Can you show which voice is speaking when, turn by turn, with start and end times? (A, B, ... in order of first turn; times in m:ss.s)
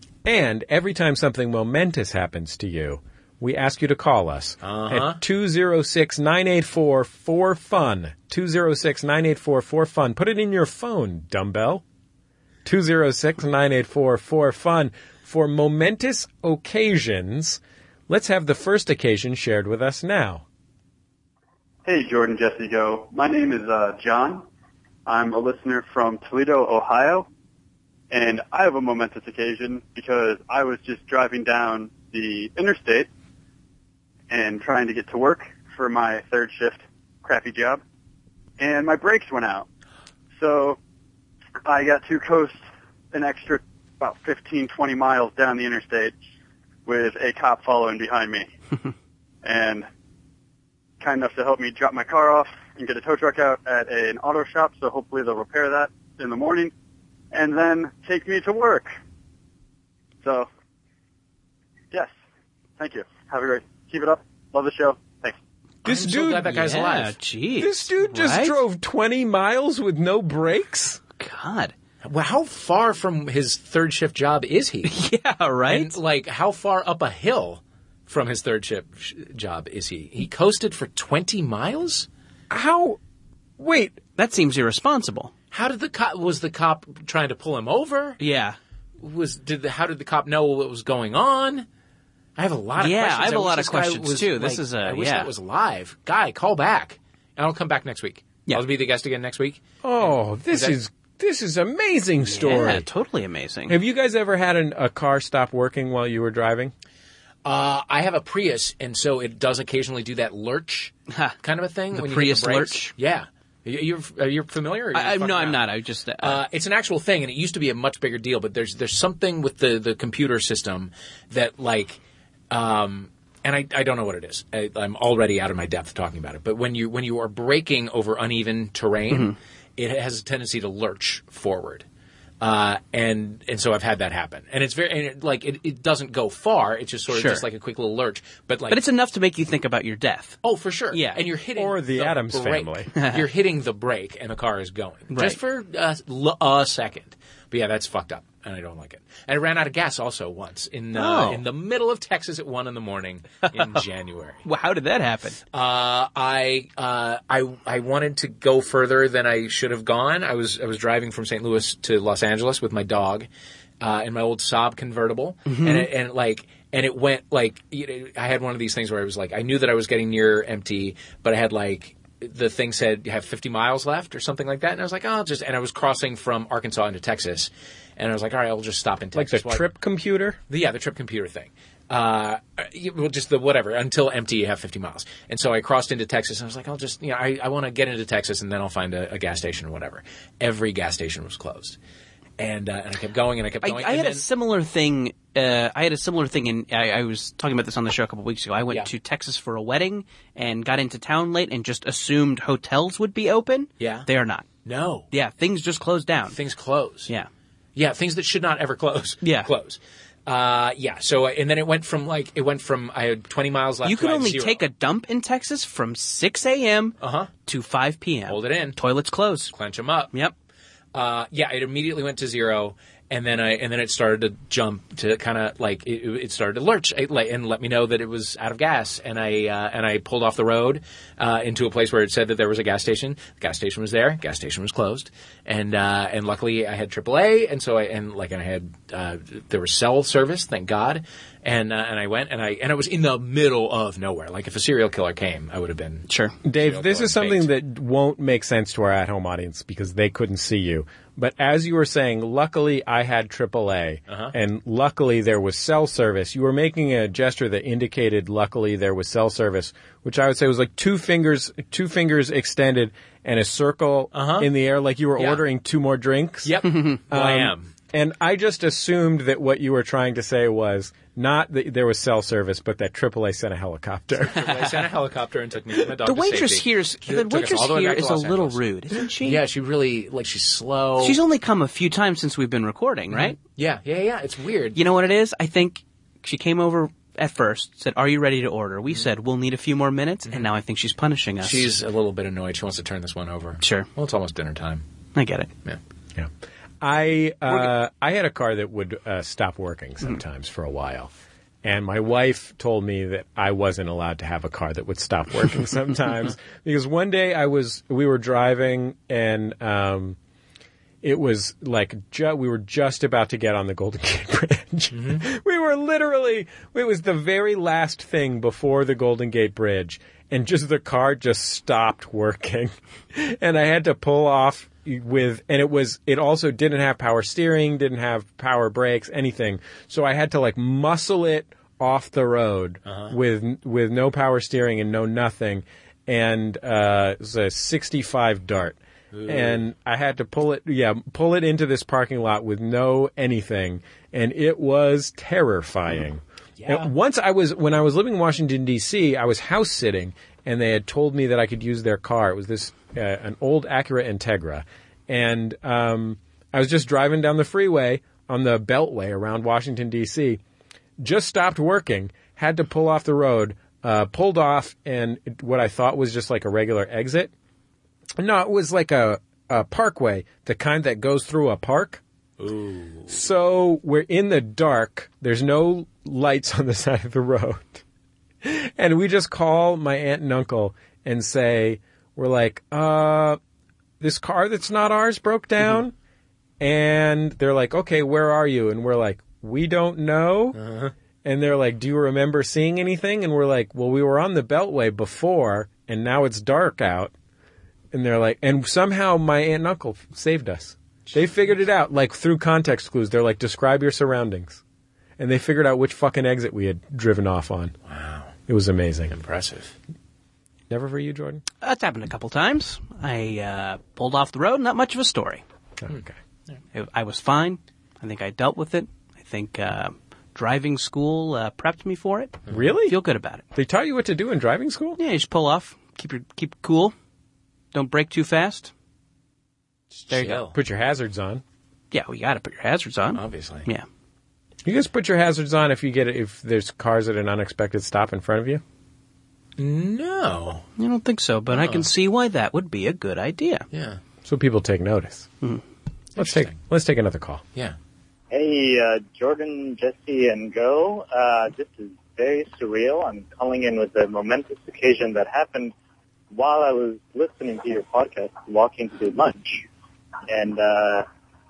0:00.2-0:11.8 A
0:04.6-0:05.2 B
0:12.6-0:20.4 A
0:21.8-0:24.5 C
0:25.1-0:27.3 C
0:28.1-0:33.1 C
0:34.3-0:37.8 C
0:38.6-0:39.7 C
0:40.4-0:40.8 C
0:41.6-0:42.6 C
0:43.1-0:46.2 C
0:46.9-0:48.5 C
0:49.4-0:49.9 C
0:51.0-0:56.7 C
0:57.3-0:59.0 C
1:00.2-1:00.5 C
1:02.8-1:05.4 C
1:05.8-1:06.5 A
1:05.8-1:07.2 B
1:06.4-1:08.6 D
1:07.6-1:11.0 A
1:11.2-1:11.7 D
1:12.0-1:14.9 B
1:14.9-1:16.0 D
1:15.7-1:22.1 B
1:22.5-1:23.0 A
1:23.6-1:24.0 A
1:24.2-1:25.3 D
1:25.5-1:28.2 B
1:28.2-1:28.6 D
1:29.0-1:31.7 B
1:32.4-1:40.8 B
1:32.8-1:35.3 D
1:39.8-1:42.9 A
1:42.2-1:43.8 D
1:43.7-1:46.7 A
1:47.4-1:55.6 B
1:51.9-1:52.9 D
1:54.9-1:56.4 D
1:56.2-2:02.0 B
2:02.5-2:11.8 B
2:09.1-2:09.4 D
2:12.4-2:18.8 B
2:17.1-2:17.4 D
2:18.7-2:20.4 D
2:20.4-2:34.4 B
2:20.9-2:21.2 D
2:21.6-2:22.9 A
2:25.1-2:25.4 D
2:31.0-2:31.4 D
2:34.4-2:35.4 D
2:35.5-2:43.3 B
2:43.8-2:59.7 B
2:45.5-2:45.8 D
2:59.1-3:00.4 A
3:00.5-3:11.8 B
3:12.4-3:14.2 B
3:13.6-3:24.5 D
3:23.8-3:24.1 B
3:24.6-3:25.1 B
3:25.1-3:26.4 D
3:26.3-3:27.1 B
3:27.8-3:34.6 B
3:29.2-3:29.5 D
3:33.8-3:37.0 D
3:37.0-3:37.3 B
3:37.5-3:39.5 D
3:38.3-3:38.8 B
3:39.5-3:40.1 B
3:40.9-4:07.5 B
4:06.1-4:06.4 D
4:06.4-4:34.5 A
4:14.1-4:14.4 B
4:24.1-4:24.5 B
4:25.2-4:25.4 B
4:26.4-4:27.7 B
4:34.2-4:38.6 B
4:36.0-4:39.4 D
4:39.2-4:41.2 B
4:41.0-4:43.4 D
4:43.1-4:44.8 B
4:44.8-4:51.7 D
4:51.4-4:54.8 B
4:53.6-4:53.9 D
4:55.2-4:55.5 D
4:56.8-5:01.1 A
5:01.6-5:10.2 A
5:11.0-6:00.4 A
5:14.9-5:15.2 B
5:32.9-5:33.2 B
5:39.1-5:39.6 B
5:46.6-5:46.9 B
6:01.0-6:07.3 A
6:08.2-6:12.0 A
6:12.4-6:13.2 B
6:13.1-6:17.8 A
6:18.4-6:23.4 A
6:24.0-6:25.9 A
6:26.6-6:30.6 A
6:30.6-6:30.9 B
6:31.2-6:37.1 A
6:37.9-6:44.6 A
6:45.2-6:47.8 A
6:47.9-6:48.3 B
6:48.5-6:49.1 A
6:49.1-6:49.7 B
6:50.7-6:51.4 A
6:51.6-6:55.4 D
6:55.8-6:56.1 A
6:55.9-6:56.6 B
6:56.7-7:03.4 D
7:02.5-7:03.0 A
7:03.5-7:05.0 A
7:05.0-7:06.9 D
7:07.7-7:08.7 D
7:10.0-7:10.6 B
7:10.1-7:10.4 D
7:10.5-7:11.4 A
7:11.9-7:13.9 D
7:13.1-7:13.7 B
7:14.6-7:18.6 A
7:19.6-7:20.7 B
7:20.8-7:23.6 D
7:21.5-7:21.9 B
7:23.7-7:24.0 B
7:24.2-7:25.3 A
7:26.2-7:26.6 B
7:26.2-7:27.4 A
7:28.3-7:35.7 E
7:36.3-7:39.7 E
7:40.3-7:41.1 E